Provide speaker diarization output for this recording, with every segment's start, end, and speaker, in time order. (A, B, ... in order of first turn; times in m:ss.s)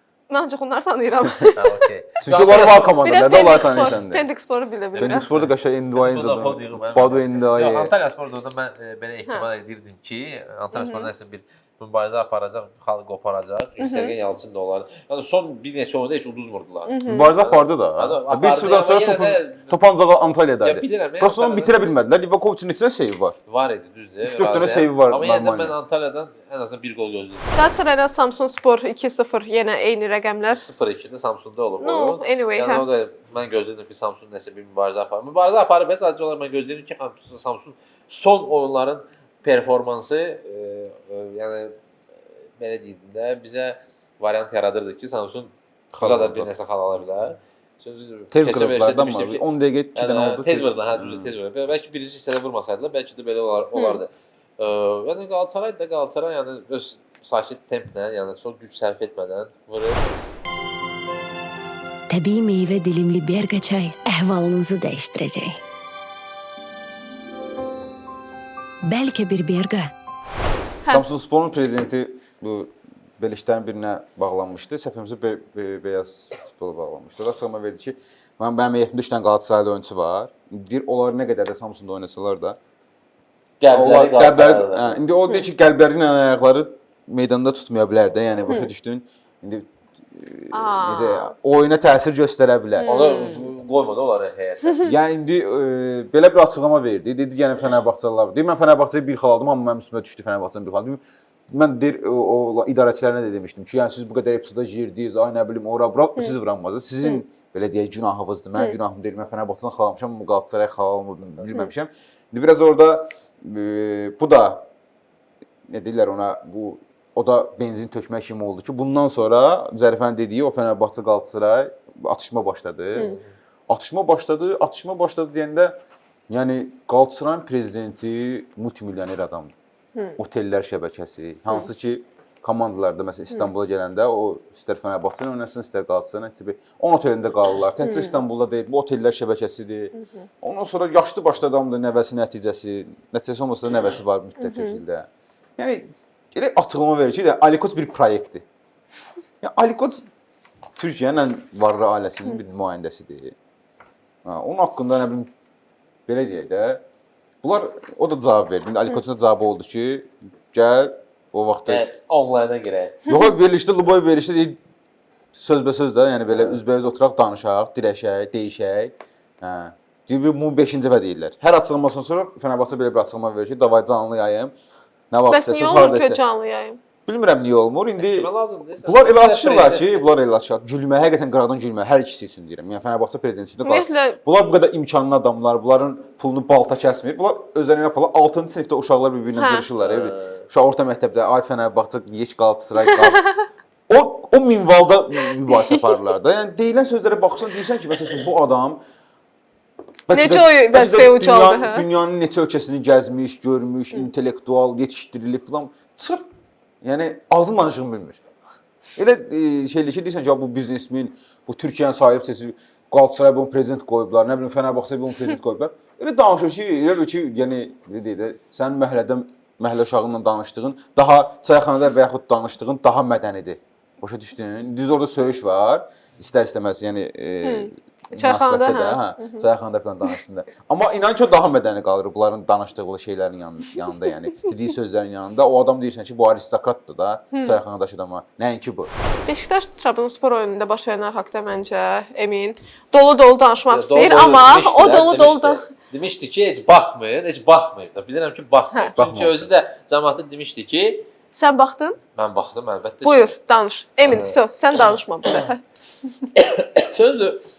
0:00.3-0:01.6 A
0:01.6-0:03.0 B
0:02.2-0:04.2 C
0:03.0-0:05.3 A
0:03.6-0:04.0 B
0:04.9-0:19.8 B
0:05.0-0:07.9 C
0:10.8-0:11.1 A
0:13.8-0:14.2 A
0:16.9-0:17.3 A
0:17.0-0:23.4 C
0:20.6-0:21.9 B
0:23.5-0:27.6 B
0:24.2-0:25.8 C
0:27.6-0:30.6 A
0:30.5-0:41.7 B
0:31.8-0:32.9 A
0:42.6-0:49.4 B
0:45.9-0:46.5 C
0:48.3-0:51.3 C
0:50.0-1:00.0 B
1:02.1-1:05.6 D
1:08.8-1:09.9 D
1:10.9-1:22.6 C
1:23.6-1:25.0 B
1:23.7-1:33.0 C
1:30.5-1:31.3 A
1:32.8-1:33.5 A
1:32.8-1:34.8 B
1:34.7-1:34.9 A
1:34.8-1:54.7 C
1:55.7-2:03.1 C
2:03.0-2:03.3 B
2:03.7-2:05.8 C
2:06.3-2:09.5 C
2:10.2-2:25.1 C
2:17.8-2:18.2 A
2:20.0-2:20.3 A
2:24.4-2:24.8 A
2:25.6-2:28.4 C
2:29.4-2:30.1 C
2:30.8-2:33.4 C
2:34.2-2:35.3 C
2:36.1-2:36.8 C
2:37.4-2:41.9 C
2:41.7-2:43.0 B
2:43.1-2:44.6 C
2:45.3-2:54.5 C
2:46.3-2:46.6 B
2:55.1-2:56.2 C
2:55.3-2:56.8 A
2:57.1-2:58.3 C
2:58.0-3:00.1 B
2:58.8-3:13.3 C
3:03.6-3:04.2 A
3:09.4-3:09.7 A
3:09.8-3:10.4 B
3:13.9-3:18.8 C
3:15.5-3:15.8 A
3:20.1-3:26.2 C
3:20.1-3:21.9 A
3:26.8-3:28.2 C
3:29.0-3:58.9 C
3:47.4-3:49.5 A
3:57.3-3:57.6 A
3:59.3-4:05.7 A
4:03.7-4:11.1 B
4:09.0-4:09.5 C
4:11.3-4:12.0 A
4:12.2-4:13.4 B
4:13.0-4:15.6 A
4:14.0-4:14.4 B
4:16.4-4:17.4 B